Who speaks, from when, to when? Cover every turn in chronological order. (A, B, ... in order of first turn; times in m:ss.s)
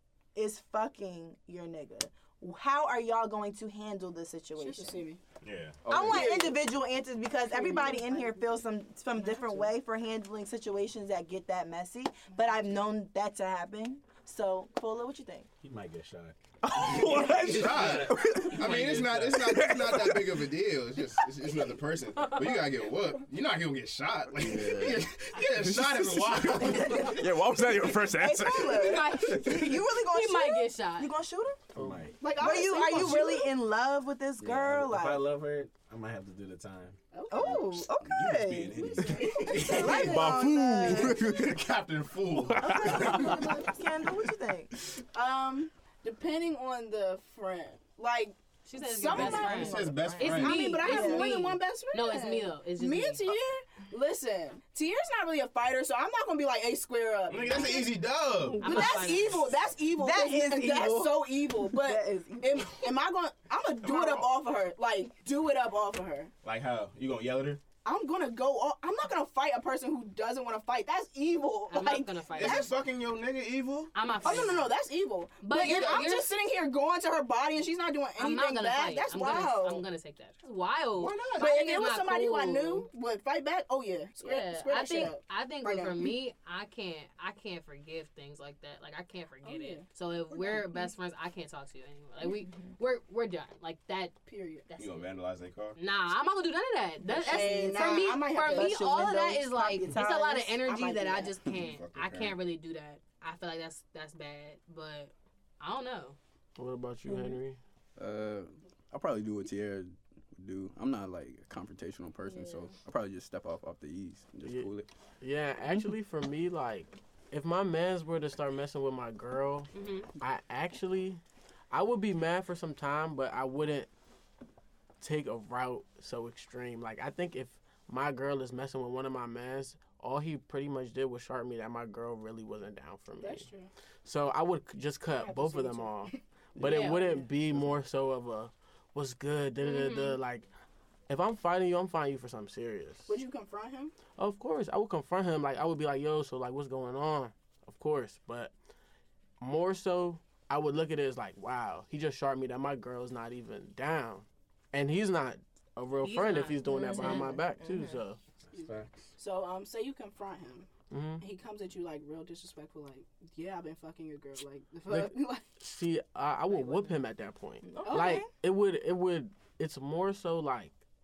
0:00.3-0:05.0 A
0:04.6-0:05.2 B
0:05.4-0:05.8 C
0:05.8-0:06.4 D
0:05.9-0:15.5 A
0:06.0-0:06.6 B
0:07.5-0:08.6 B
0:09.2-0:09.7 B
0:12.3-0:12.6 B
0:15.6-0:19.8 E
0:16.6-0:18.6 D
0:17.4-0:27.4 C
0:19.4-0:20.4 D
0:24.4-0:29.5 D
0:26.6-0:27.2 A
0:27.9-0:31.6 A
0:28.7-0:31.1 F
0:31.8-0:32.1 G
0:31.8-0:32.2 E
0:32.2-0:33.5 B
0:32.4-0:35.3 A
0:34.4-0:34.7 D
0:34.5-0:37.0 E
0:37.1-0:37.7 B
0:37.3-0:41.3 A
0:38.0-0:43.3 C
0:39.0-0:40.4 B
0:40.1-0:41.6 D
0:42.5-0:43.4 D
0:42.6-0:44.7 A
0:43.2-0:43.7 B
0:45.0-0:58.0 B
0:48.6-0:53.4 F
0:49.1-0:51.4 A
0:49.2-0:50.6 C
0:57.3-0:58.8 C
0:58.6-0:59.5 F
0:58.6-1:06.3 B
0:59.9-1:02.9 A
1:03.8-1:04.4 C
1:06.4-1:07.6 C
1:07.8-1:12.7 B
1:11.7-1:12.7 F
1:12.3-1:14.5 C
1:13.9-1:14.7 F
1:14.2-1:19.8 B
1:15.4-1:16.3 F
1:15.5-1:16.1 C
1:18.2-1:22.9 F
1:21.0-1:21.3 C
1:21.1-1:26.1 B
1:24.2-1:35.1 F
1:29.4-1:30.9 B
1:32.2-1:32.7 A
1:34.2-1:34.7 B
1:34.8-1:35.8 C
1:35.8-1:46.2 F
1:37.1-1:41.3 A
1:37.2-1:38.9 B
1:40.7-1:41.3 B
1:41.5-1:42.4 C
1:46.6-1:47.6 G
1:47.1-1:47.4 A
1:48.0-1:54.9 D
1:52.2-1:52.7 B
1:54.4-1:54.7 G
1:55.2-2:01.2 G
1:59.7-2:00.1 F
2:01.7-2:03.9 G
2:05.0-2:13.5 G
2:13.2-2:13.7 B
2:14.0-2:20.5 G
2:15.1-2:17.3 B
2:16.6-2:17.2 F
2:19.6-2:20.2 F
2:21.1-2:23.1 G
2:23.1-2:23.9 B
2:24.2-2:28.5 G
2:29.4-2:38.2 G
2:36.0-2:37.3 F
2:36.6-2:38.0 A
2:38.4-2:39.1 E
2:38.5-2:45.6 B
2:40.9-2:41.2 G
2:44.9-2:50.8 G
2:46.6-2:46.9 B
2:47.6-2:48.3 A
2:47.8-2:48.3 B